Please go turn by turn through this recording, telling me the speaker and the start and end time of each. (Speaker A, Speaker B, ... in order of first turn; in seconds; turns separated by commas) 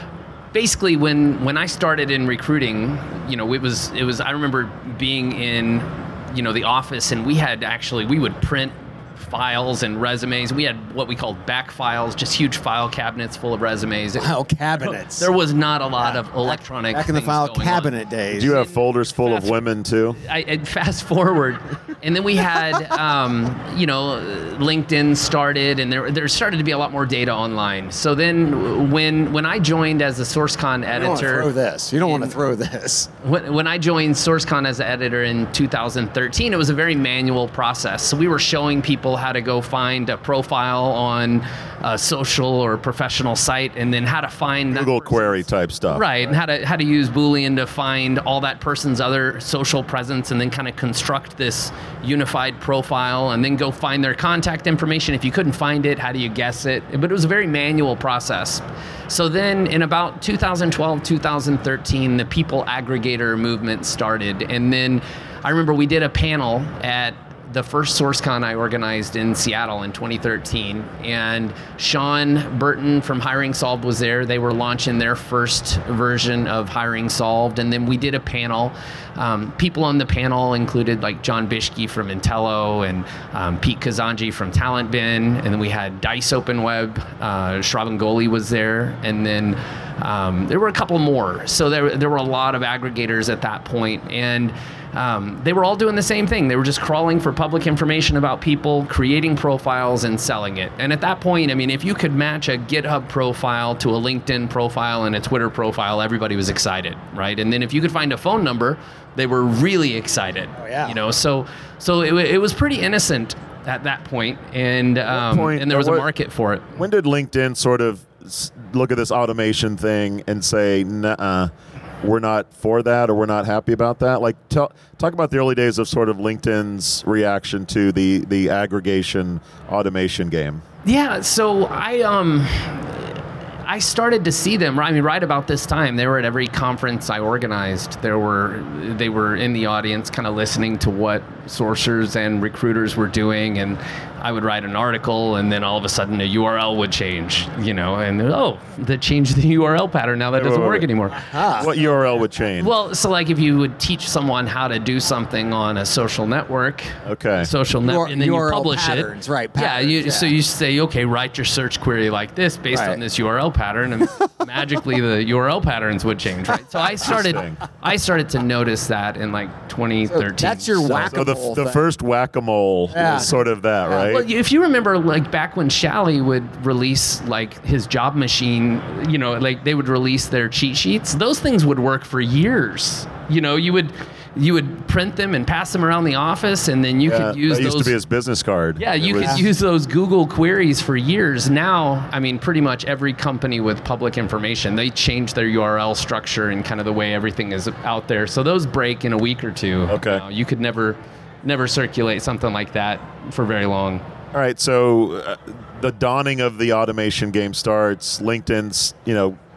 Speaker A: 0.5-19.5, Speaker B: 14.2-15.3, Speaker B: 16.0-18.6, Speaker C: 18.3-20.2, Speaker A: 20.2-31.5, Speaker B: 30.9-33.1, Speaker A: 32.0-32.3, Speaker A: 33.2-45.3, Speaker C: 44.7-46.1, Speaker A: 45.9-116.8, Speaker B: 110.6-111.0, Speaker C: 115.1-116.1, Speaker C: 116.8-130.6, Speaker A: 130.8-151.3, Speaker C: 150.3-150.9, Speaker B: 151.1-151.7, Speaker C: 151.6-152.7, Speaker A: 152.6-171.1, Speaker C: 157.1-157.5, Speaker B: 157.8-160.3, Speaker B: 162.7-163.0, Speaker C: 167.0-167.6, Speaker B: 170.1-171.8, Speaker C: 171.1-174.2, Speaker B: 172.9-174.2, Speaker A: 174.1-187.9, Speaker C: 187.1-189.4, Speaker A: 188.8-204.0, Speaker C: 199.9-200.2, Speaker C: 204.3-209.4